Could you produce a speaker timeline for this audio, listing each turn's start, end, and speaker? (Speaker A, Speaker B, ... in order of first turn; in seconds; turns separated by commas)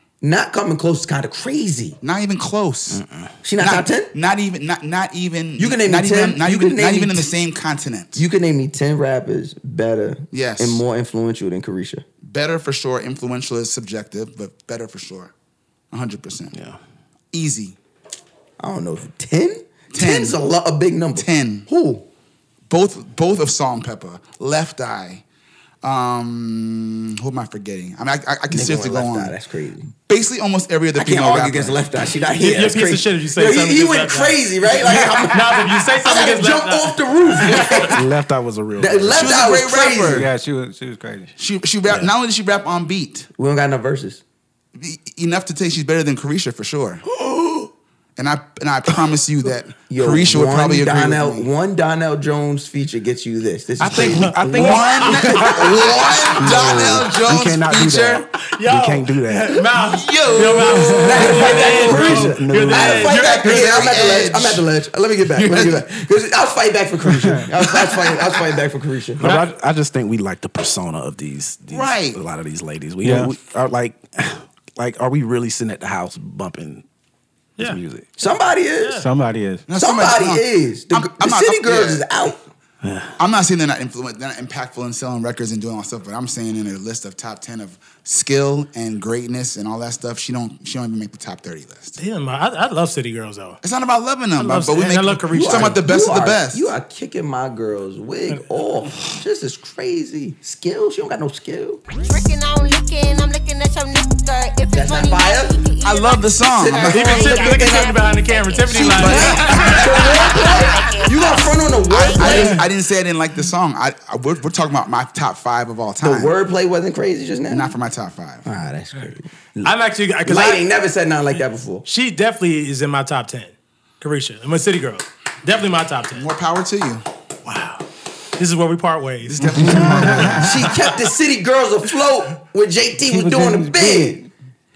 Speaker A: 0.2-2.0, Speaker B: 2.0-3.0, Speaker C: 2.9-3.3, Speaker A: 3.4-4.1, Speaker B: 3.6-8.2, Speaker A: 5.6-7.3, Speaker A: 8.2-12.1, Speaker B: 10.3-10.8, Speaker B: 12.2-15.3, Speaker B: 15.9-16.6, Speaker C: 16.5-16.8, Speaker B: 17.3-17.8, Speaker A: 18.6-22.1, Speaker B: 19.9-20.4, Speaker B: 21.2-21.7, Speaker B: 22.7-25.2, Speaker B: 25.8-29.4, Speaker A: 28.5-29.9, Speaker B: 30.1-31.8, Speaker A: 31.0-38.0, Speaker D: 32.4-37.9, Speaker C: 37.8-39.4, Speaker A: 38.8-40.3, Speaker B: 39.1-40.3, Speaker E: 40.1-41.3, Speaker B: 41.4-43.3, Speaker A: 43.4-44.2, Speaker B: 44.8-47.0, Speaker A: 47.1-47.7, Speaker B: 48.2-51.5, Speaker A: 49.9-56.9, Speaker C: 53.8-55.4, Speaker D: 54.1-55.5, Speaker B: 54.5-58.3, Speaker C: 56.4-59.7, Speaker D: 58.5-63.5, Speaker B: 59.7-64.7, Speaker A: 61.0-69.2, Speaker C: 61.2-63.2, Speaker B: 65.3-65.8, Speaker E: 67.1-67.5, Speaker C: 69.2-76.8, Speaker D: 69.2-69.5, Speaker B: 71.7-72.2, Speaker E: 73.0-73.3, Speaker C: 77.6-78.1, Speaker A: 78.2-79.1, Speaker D: 78.8-79.1, Speaker E: 79.0-79.6, Speaker B: 79.7-82.1, Speaker A: 79.8-82.4, Speaker C: 82.8-83.2, Speaker B: 83.2-92.0, Speaker D: 92.0-93.6, Speaker B: 93.6-96.7, Speaker D: 94.4-95.8, Speaker A: 95.3-101.8, Speaker F: 101.9-112.7, Speaker A: 104.7-105.6, Speaker B: 105.8-107.4, Speaker A: 106.5-108.0, Speaker D: 106.9-110.6, Speaker A: 108.7-112.7, Speaker B: 109.0-110.3, Speaker B: 111.9-116.4, Speaker A: 116.0-117.7, Speaker B: 117.5-118.5, Speaker A: 118.5-121.8, Speaker D: 119.6-120.7, Speaker D: 121.8-126.3, Speaker B: 126.1-127.0, Speaker D: 127.5-127.8, Speaker D: 128.4-129.8, Speaker B: 129.2-130.7, Speaker E: 129.5-130.5, Speaker A: 130.4-134.2, Speaker E: 133.1-134.3